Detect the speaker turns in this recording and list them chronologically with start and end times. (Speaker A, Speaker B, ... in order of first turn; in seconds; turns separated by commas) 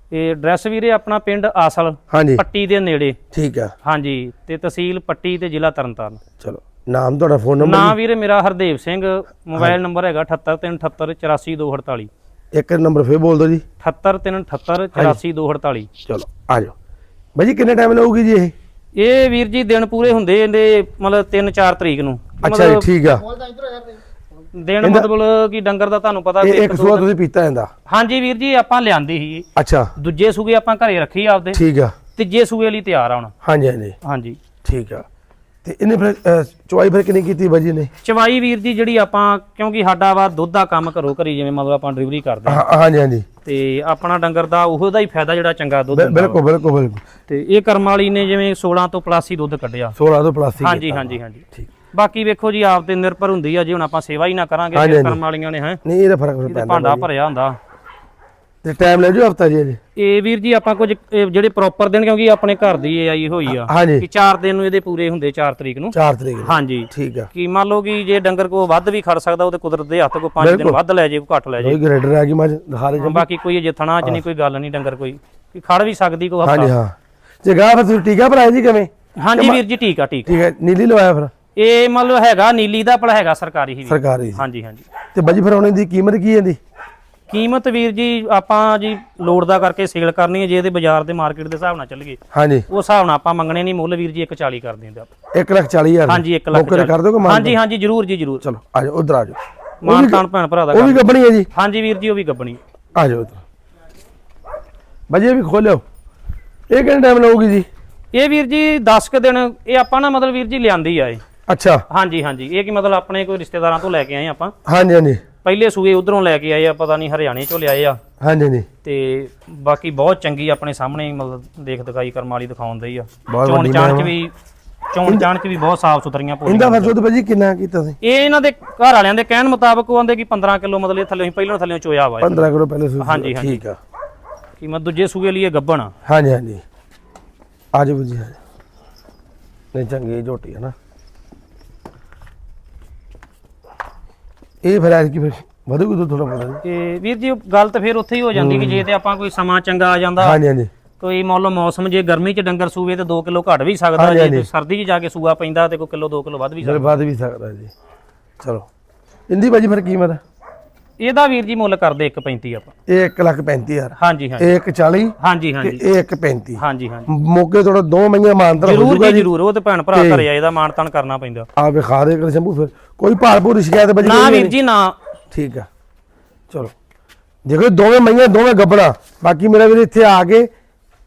Speaker A: 0.1-3.2, Speaker B: 2.1-2.4, Speaker B: 3.3-3.7, Speaker A: 3.8-6.2, Speaker B: 6.4-8.0, Speaker A: 7.6-12.1, Speaker B: 12.5-13.6, Speaker A: 13.8-15.9, Speaker B: 14.9-15.2, Speaker B: 16.1-16.7, Speaker B: 17.3-18.5, Speaker A: 18.9-22.9, Speaker B: 22.4-23.4, Speaker A: 24.6-27.1, Speaker B: 24.8-25.1, Speaker B: 26.4-27.7, Speaker A: 27.9-29.5, Speaker B: 29.6-29.9, Speaker A: 30.0-31.6, Speaker B: 31.5-32.0, Speaker A: 32.1-33.3, Speaker B: 33.4-34.0, Speaker A: 34.0-34.4, Speaker B: 34.6-35.0, Speaker B: 35.6-37.9, Speaker A: 38.0-42.6, Speaker B: 42.5-43.3, Speaker A: 43.4-46.4, Speaker B: 45.9-47.0, Speaker A: 47.3-50.0, Speaker B: 50.0-51.7, Speaker A: 50.6-55.8, Speaker B: 54.7-55.2, Speaker B: 55.8-57.1, Speaker A: 56.5-57.6, Speaker B: 58.6-59.8, Speaker A: 60.0-71.8, Speaker B: 63.5-64.1, Speaker B: 65.9-67.3, Speaker B: 70.4-70.8, Speaker B: 71.6-73.3, Speaker A: 73.0-76.8, Speaker B: 76.4-79.6, Speaker A: 79.2-80.3, Speaker B: 80.3-81.3, Speaker A: 81.5-84.9, Speaker B: 83.8-84.4, Speaker B: 85.1-86.6, Speaker A: 87.3-95.1, Speaker B: 92.3-92.7, Speaker B: 95.3-97.6, Speaker A: 96.1-98.4, Speaker B: 98.4-101.5, Speaker A: 99.8-101.0, Speaker A: 101.5-102.6, Speaker B: 102.9-103.4, Speaker B: 105.1-105.8, Speaker B: 106.7-107.7, Speaker A: 108.1-111.2, Speaker B: 111.5-111.8, Speaker A: 111.9-114.5, Speaker B: 114.6-115.2, Speaker A: 115.4-118.0, Speaker B: 118.2-118.7, Speaker A: 118.8-124.3, Speaker B: 123.3-124.1, Speaker A: 124.9-126.9, Speaker B: 126.5-128.0, Speaker A: 128.0-132.5, Speaker B: 132.2-133.8, Speaker A: 133.0-133.6, Speaker A: 134.6-135.9, Speaker B: 136.1-136.6, Speaker B: 137.7-138.4, Speaker B: 139.7-140.8, Speaker B: 144.6-146.6, Speaker A: 146.6-150.4, Speaker B: 148.3-148.8, Speaker B: 150.2-150.7, Speaker A: 151.0-157.0, Speaker B: 153.9-154.5, Speaker B: 156.6-157.7, Speaker B: 158.4-158.7, Speaker B: 159.3-160.2, Speaker A: 161.0-162.7, Speaker B: 162.9-169.3, Speaker A: 164.0-164.5, Speaker A: 165.2-165.8, Speaker A: 166.6-167.1, Speaker A: 168.6-171.5, Speaker B: 169.9-170.3, Speaker B: 171.6-174.5, Speaker A: 174.0-174.9, Speaker B: 175.3-175.7, Speaker B: 177.4-180.5